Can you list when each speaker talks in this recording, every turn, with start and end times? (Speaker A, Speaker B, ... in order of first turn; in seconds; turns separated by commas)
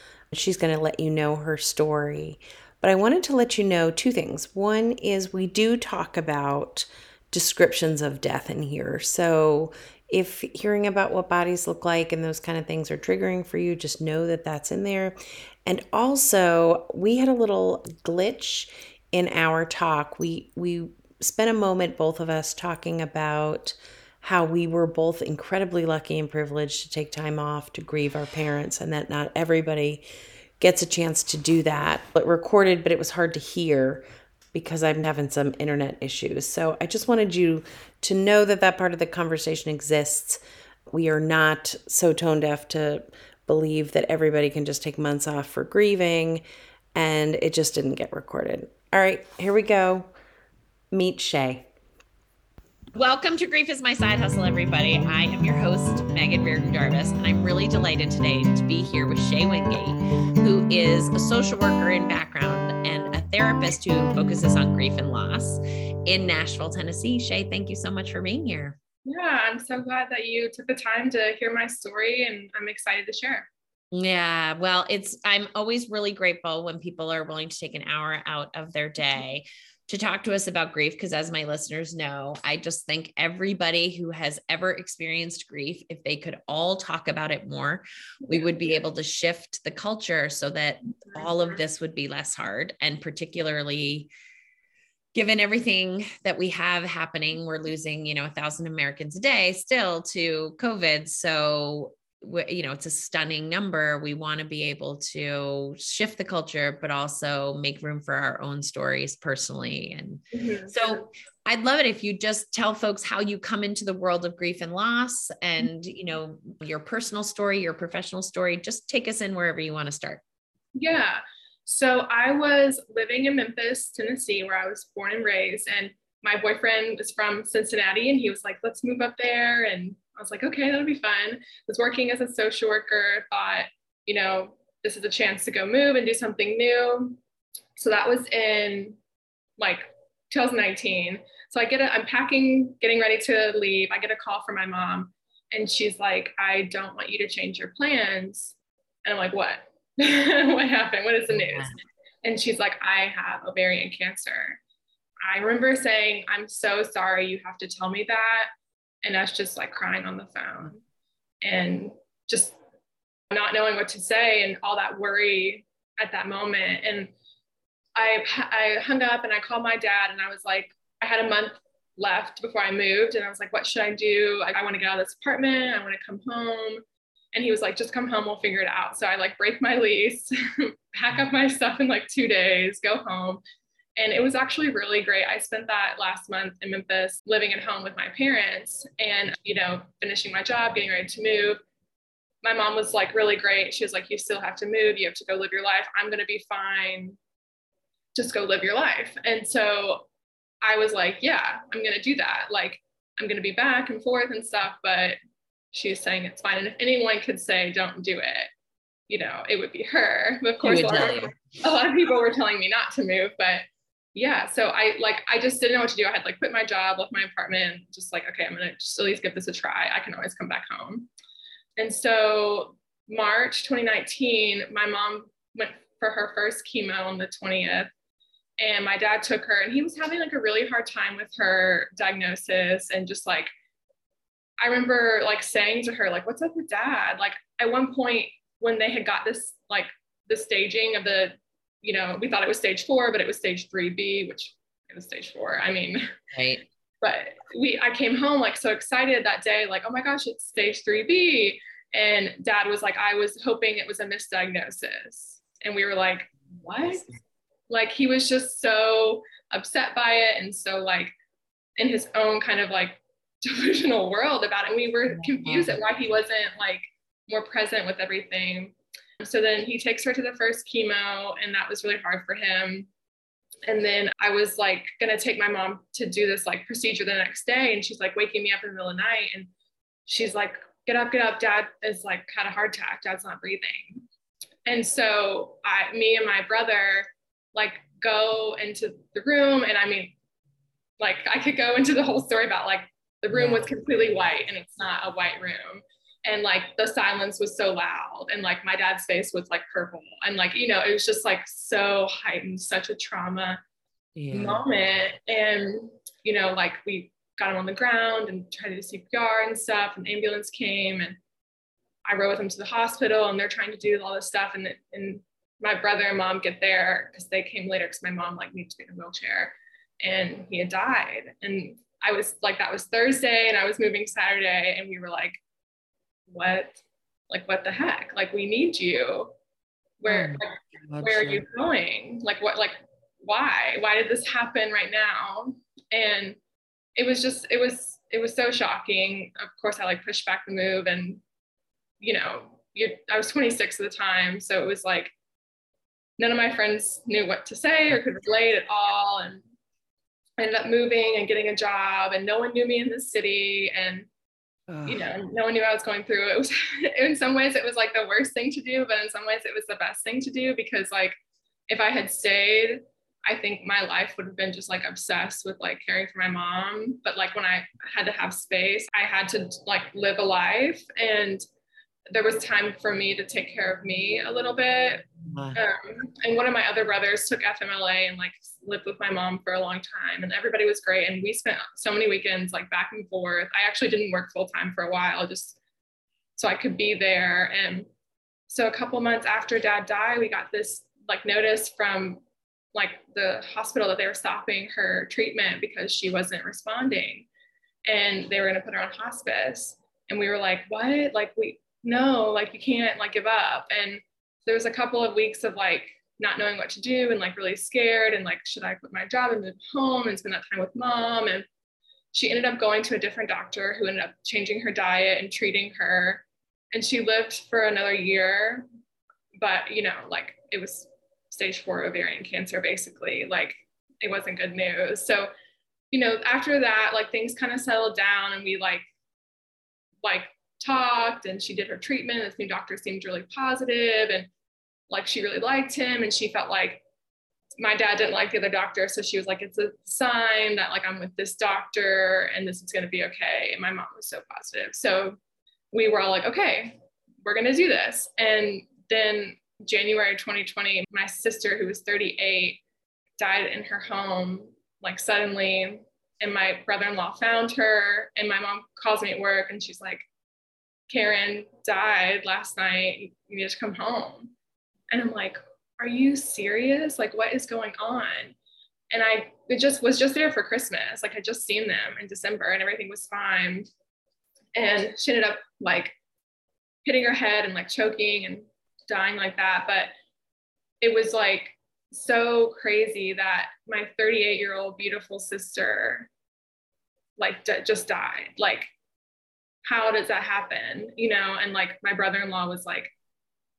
Speaker A: 0.3-30.0, Speaker A: 30.6-46.4, Speaker A: 46.9-50.1, Speaker A: 50.9-51.7, Speaker B: 53.0-68.8, Speaker C: 69.0-73.5, Speaker B: 73.9-94.1, Speaker B: 95.1-120.2, Speaker C: 110.3-110.7, Speaker C: 120.8-137.2, Speaker C: 137.8-139.0, Speaker C: 139.6-154.6, Speaker B: 151.4-151.7, Speaker C: 155.2-158.5, Speaker C: 159.0-160.8, Speaker C: 161.4-162.6, Speaker C: 163.3-167.1, Speaker C: 167.9-176.8, Speaker C: 177.3-183.4, Speaker C: 184.0-191.6, Speaker C: 192.4-197.2, Speaker C: 198.1-200.0, Speaker C: 200.6-205.2, Speaker C: 205.7-208.5, Speaker C: 209.1-221.1, Speaker B: 210.6-211.4, Speaker C: 221.8-227.9, Speaker C: 228.6-233.5, Speaker C: 234.6-246.0, Speaker B: 246.3-246.6, Speaker C: 247.0-257.1, Speaker C: 257.7-261.1, Speaker C: 261.8-272.9, Speaker B: 265.1-265.7, Speaker C: 273.7-279.5, Speaker C: 280.1-284.0, Speaker C: 284.6-290.1, Speaker C: 291.0-303.6, Speaker B: 293.3-293.7, Speaker B: 304.1-304.6, Speaker C: 304.3-311.1, Speaker C: 312.1-325.4, Speaker C: 326.3-326.8, Speaker C: 327.3-329.3, Speaker C: 330.0-336.4, Speaker B: 330.0-331.4, Speaker C: 336.9-341.2, Speaker C: 342.0-345.1, Speaker C: 346.2-349.4, Speaker C: 350.4-354.1, Speaker B: 354.7-355.1, Speaker C: 354.9-361.1, Speaker C: 361.7-371.4, Speaker C: 372.1-385.6, Speaker B: 375.3-375.6, Speaker C: 386.4-387.9, Speaker C: 388.5-392.2, Speaker C: 392.7-397.3, Speaker C: 397.9-411.4, Speaker C: 412.1-418.6, Speaker C: 419.4-425.3, Speaker C: 425.9-428.8, Speaker C: 430.0-434.3, Speaker C: 434.9-436.8, Speaker C: 437.6-445.2, Speaker C: 445.7-452.6, Speaker C: 453.2-460.1, Speaker C: 460.9-464.3, Speaker C: 464.9-468.3, Speaker C: 468.9-473.6, Speaker C: 474.6-475.9, Speaker C: 476.8-479.9, Speaker C: 480.8-486.1, Speaker C: 487.2-488.7, Speaker C: 489.6-492.9